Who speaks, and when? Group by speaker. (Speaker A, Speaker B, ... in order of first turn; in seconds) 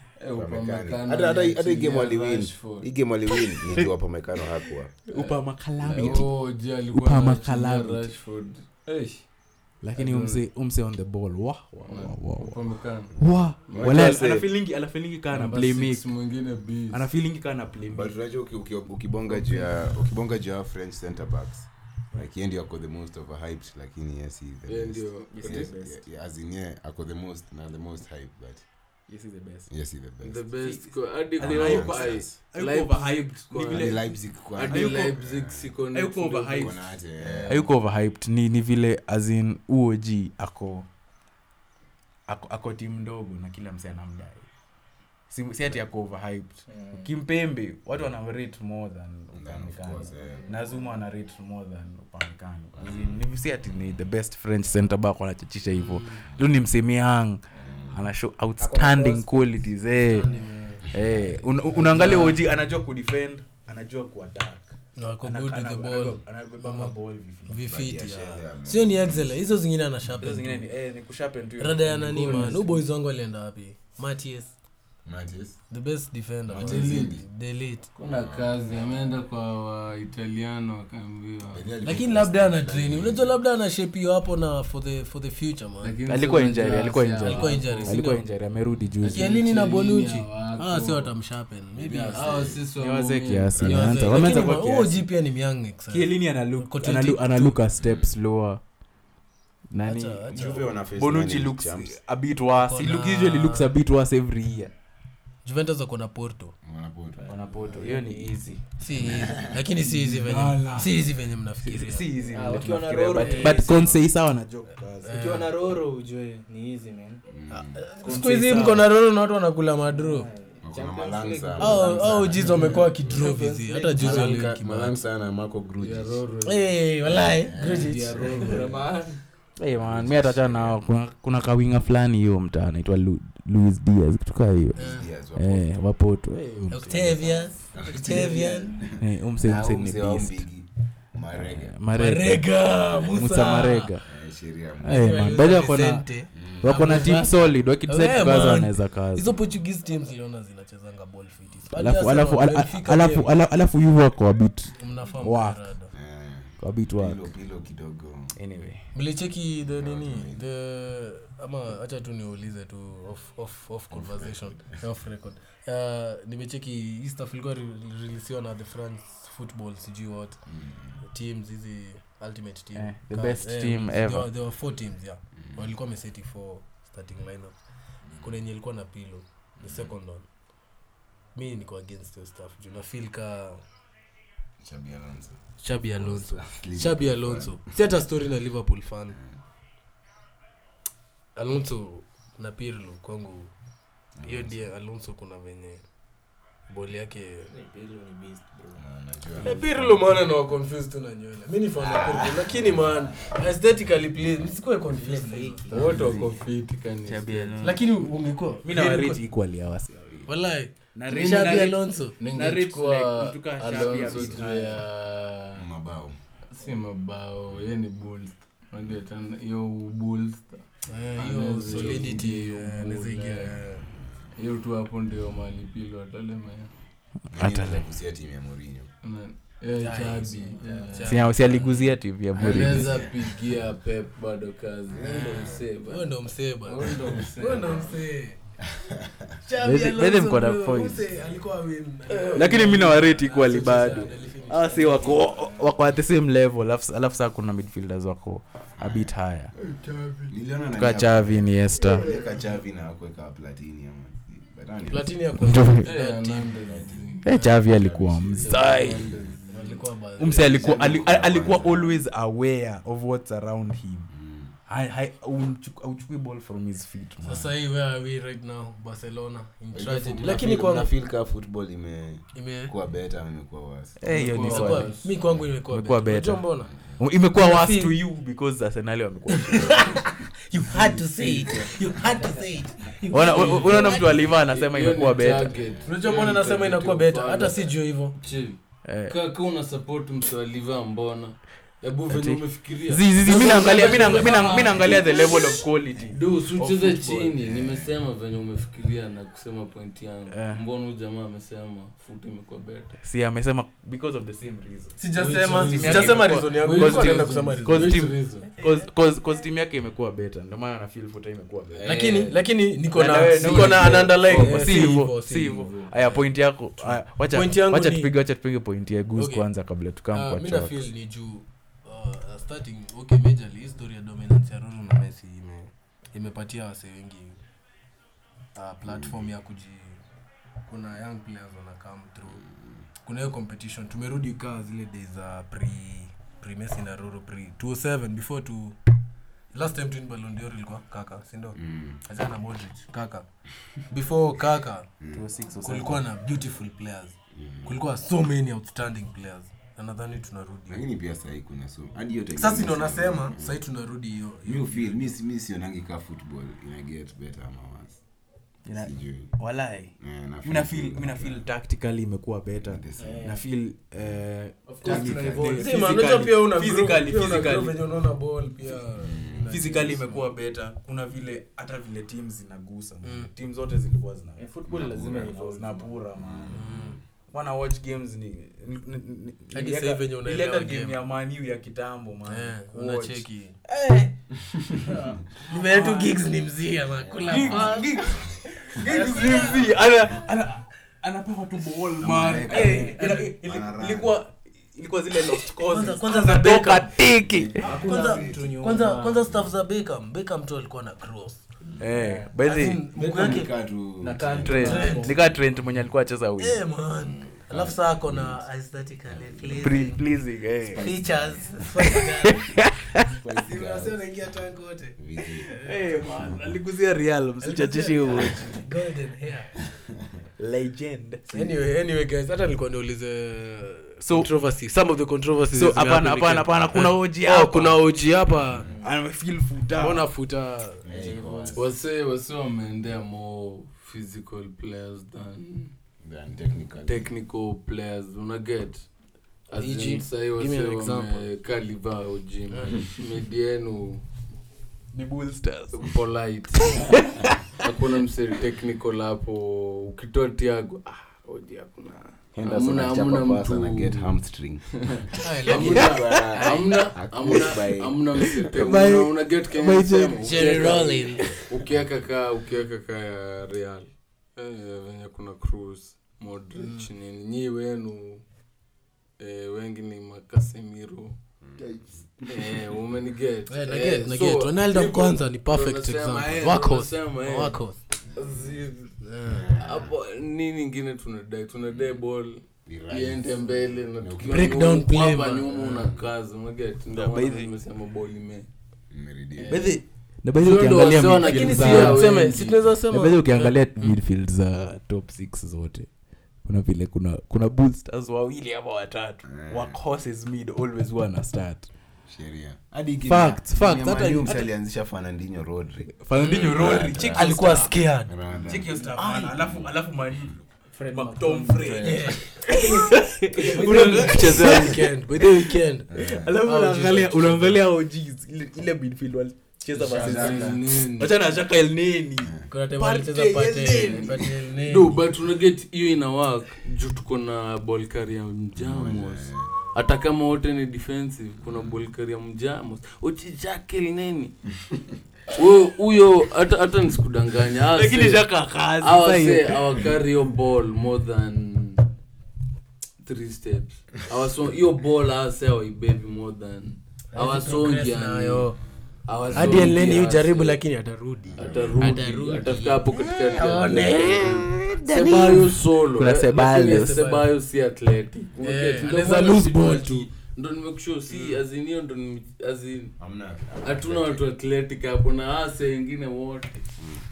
Speaker A: 0.2-2.9, 5.1-9.2, 9.9-10.4, 11.9-13.2, 13.7-14.2, 15.3-17.1, 19.4-19.9, 24.7-25.7, 30.2-34.0, 34.5-36.8, 76.6-77.2, 78.0-81.7, 85.8-88.0, 89.0-91.1, 92.0-94.1, 122.3-123.4, 125.8-126.7, 127.6-128.8, 205.7-207.7, 211.1-215.7, 216.5-223.6, 224.4-226.7, 229.0-231.2, 232.3-238.0, 255.8-257.5, 258.4-259.8, 274.1-275.1, 281.5-281.8, 283.3-295.5, 296.1-303.0, 305.2-308.6, 311.7-312.4, 314.4-314.6, 364.9-365.6, 431.5-435.7, 436.8-438.8, 439.5-444.0, 445.7-447.0, 447.6-454.1, 454.8-468.2, 469.2-471.2, 472.2-477.6, 478.1-478.9, 479.5-488.5, 489.4-489.8, 490.4-492.6, 519.8-521.2, 523.7-534.3, 535.3-538.3, 538.8-541.9, 543.0-548.6, 549.1-550.6, 551.4-563.0, 563.6-566.7
Speaker B: 0.3-4.9, 5.9-6.2, 13.7-14.5, 17.9-28.6, 29.7-30.5, 31.4-32.4, 33.7-35.7, 36.6-37.6, 49.3-50.5, 52.8-53.2, 57.5-58.0, 58.6-59.2, 60.9-61.4, 67.6-69.3, 75.0-75.6, 76.5-77.2, 78.0-79.0, 81.5-83.3, 91.8-92.6, 93.5-94.1, 97.8-98.1, 100.3-102.0, 106.6-107.3, 108.9-109.6, 117.3-117.8, 120.6-122.2, 124.0-126.2, 127.1-128.4, 129.8-130.8, 134.8-135.7, 137.7-141.7, 144.1-145.4, 146.3-146.7, 155.9-158.3, 159.6-160.4, 163.9-164.7, 170.5-171.0, 178.1-178.4, 179.6-179.9, 184.6-185.4, 186.0-187.8, 194.2-194.7, 198.8-199.9, 201.8-203.4, 215.6-216.2, 227.3-228.9, 232.7-233.1, 234.9-235.7, 238.7-239.4, 248.8-249.1, 250.3-255.2, 256.6-259.4, 260.5-262.0, 264.1-264.5, 269.7-274.0, 285.6-285.9, 297.4-298.0, 328.9-329.3, 341.6-342.0, 347.3-347.8, 350.7-353.6, 354.4-358.0, 358.8-359.3, 360.0-361.4, 362.6-363.3, 364.8-365.5, 369.0-369.6, 374.7-375.3, 376.2-377.0, 384.4-385.1, 387.0-388.2, 392.0-394.2, 397.1-398.6, 399.2-399.5, 401.7-402.0, 402.9-405.4, 407.1-408.4, 409.1-409.6, 410.9-411.7, 413.1-414.0, 415.0-415.5, 419.6-420.1, 428.6-428.8, 430.9-431.7, 436.0-437.1, 452.4-454.8, 455.4-458.3, 471.4-472.6, 478.1-478.6, 479.3-479.9, 481.7-482.0, 482.7-484.6, 485.8-486.1, 488.9-489.7, 499.2-499.8, 502.1-508.7, 509.4-510.3, 515.9-516.4, 519.9-520.6, 522.2-522.5, 528.6-529.5, 531.5-531.7, 549.3-549.7, 551.3-551.9, 563.0-564.2
Speaker C: 5.1-6.3, 6.9-8.1, 9.8-12.6, 13.2-16.1, 16.9-18.1, 25.3-26.0, 29.1-29.7, 30.6-35.2, 35.9-36.8, 37.5-40.9, 42.3-44.5, 45.3-60.3, 60.9-67.7, 70.2-72.8, 86.1-89.3, 92.8-95.1, 95.9-98.6, 99.7-104.7, 107.3-108.6, 109.6-111.0, 111.6-115.5, 118.0-118.9, 129.6-134.8, 135.3-137.3, 139.0-140.5, 141.3-144.1, 144.8-146.1, 146.6-149.3, 151.7-155.7, 156.6-157.3, 158.3-158.8, 172.8-174.3, 207.0-207.9, 208.6-210.3, 210.9-214.8, 227.3-227.9, 231.0-233.1, 239.6-241.1, 242.3-249.5, 250.7-252.1, 255.4-255.9, 257.2-259.1, 260.2-264.1, 264.7-267.5, 274.0-274.9, 275.7-280.0, 283.1-285.6, 288.9-289.2, 292.1-297.4, 300.3-300.6, 303.0-311.9, 312.9-320.8, 345.1-346.0, 358.7-367.8, 369.5-376.7, 377.3-384.1, 384.9-386.2, 387.3-397.8, 401.8-402.8, 404.3-406.6, 409.6-411.0, 412.2-413.1, 415.6-418.6, 420.4-421.3, 424.0-424.3, 425.5-427.9, 428.8-430.1, 444.9-445.9, 446.7-447.3, 456.1-456.4, 458.2-460.7, 486.9-487.5, 489.5-492.1, 492.9-495.9, 496.4-501.7, 503.1-504.3, 506.0-507.8, 508.4-510.4, 510.9-524.3, 537.7-539.9, 554.5-557.1
Speaker D: 46.7-47.1, 50.2-50.9, 107.2-108.3, 112.2-114.0, 115.1-117.2, 119.9-124.3, 128.4-129.1, 137.2-138.7, 197.5-198.8, 204.9-206.4, 282.0-282.5, 363.0-363.4, 364.7-365.7, 374.4-376.0, 397.6-399.2, 402.0-402.3, 404.0-405.2, 508.6-509.4, 510.8-514.7
Speaker E: 55.8-56.2, 60.0-60.9, 61.7-62.4, 65.0-67.0, 67.5-70.6, 71.6-74.5, 75.7-77.9, 81.8-86.0, 87.2-88.2, 89.0-92.3, 93.6-97.6, 99.8-100.7, 102.6-103.7, 105.5-106.5, 108.8-112.1, 113.2-113.7, 115.0-115.5, 117.5-120.3, 121.6-125.0, 126.4-128.7, 134.8-135.1, 136.7-138.8, 141.9-143.9, 144.8-153.3, 154.8-155.9, 158.9-170.4, 171.0-177.6, 178.2-180.3, 181.3-183.6, 185.6-189.2, 191.4-193.5, 194.2-195.8, 196.7-197.5, 199.4-206.1, 207.6-209.2, 210.3-212.2, 220.9-223.9, 229.7-231.4, 235.0-238.4, 239.4-245.6, 251.8-252.3, 254.9-256.6, 259.5-260.8, 267.2-270.9, 272.4-272.7, 274.1-276.7, 277.4-277.9, 279.3-284.2, 285.8-288.2, 293.2-295.4, 305.0-308.1, 311.8-316.2, 316.8-318.1, 319.1-319.5, 320.1-327.4, 328.6-330.0, 330.7-332.4, 333.0-338.8, 339.5-343.3, 343.9-344.9, 345.6-350.9, 352.4-355.0, 364.8-370.2, 373.0-373.3, 376.5-377.0, 379.5-381.0, 382.3-383.6, 385.4-389.8, 392.4-393.3, 395.4-396.9, 397.6-401.4, 402.4-403.5, 404.6-405.1, 406.4-410.0, 410.7-412.5, 413.4-416.4, 417.4-419.6, 421.3-428.7, 429.8-431.6, 439.6-441.3, 442.5-442.8, 455.2-456.0, 458.6-459.1, 460.1-461.4, 466.6-466.9, 473.5-477.8, 479.0-479.5, 484.2-485.9, 491.2-494.0, 503.1-504.5, 507.0-508.1, 511.8-512.7, 513.4-515.9, 516.4-517.6, 522.5-525.0, 547.1-548.6, 549.3-555.4, 556.6-557.3, 558.4-560.1